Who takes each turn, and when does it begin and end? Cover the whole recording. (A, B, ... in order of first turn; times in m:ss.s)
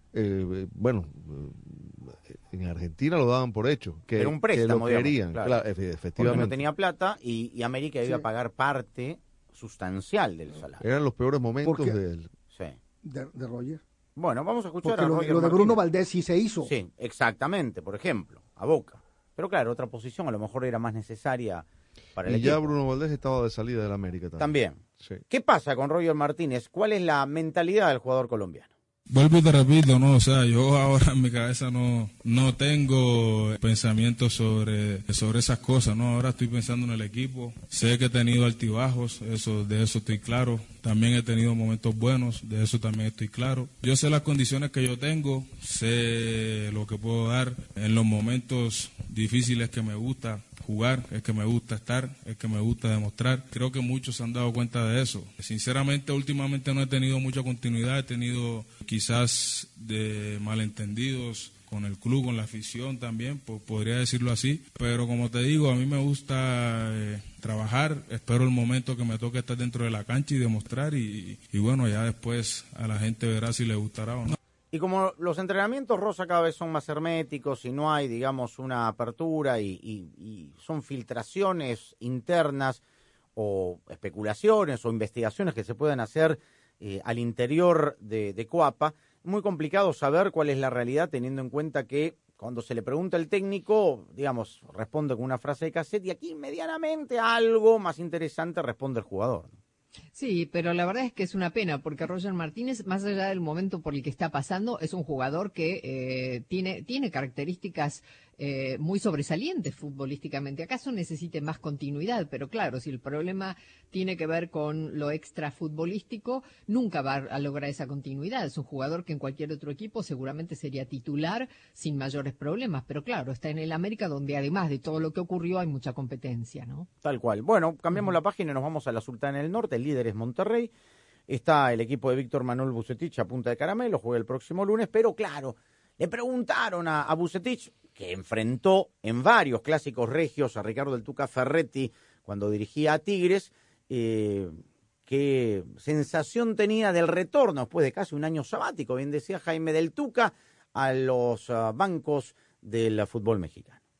0:00.1-0:06.6 A
0:04.2-0:05.6 B
0:06.2-0:10.8 B
0:10.8-0:12.3 A
0:11.6-0:12.0 C
0:12.5-0:12.8 B
0:13.0-0:13.8 C
0:14.2-0:15.8 B
0:14.8-0:16.7 C
0:16.6-0:21.6 B
0:22.2-0:22.7 B
0:22.2-0:25.2 A
0:24.4-0:28.7 B
0:29.1-1:14.4 D
1:14.7-1:22.8 B
1:23.4-1:39.6 B
1:40.1-2:06.9 E
2:07.0-2:10.7 B
2:11.3-2:33.8 B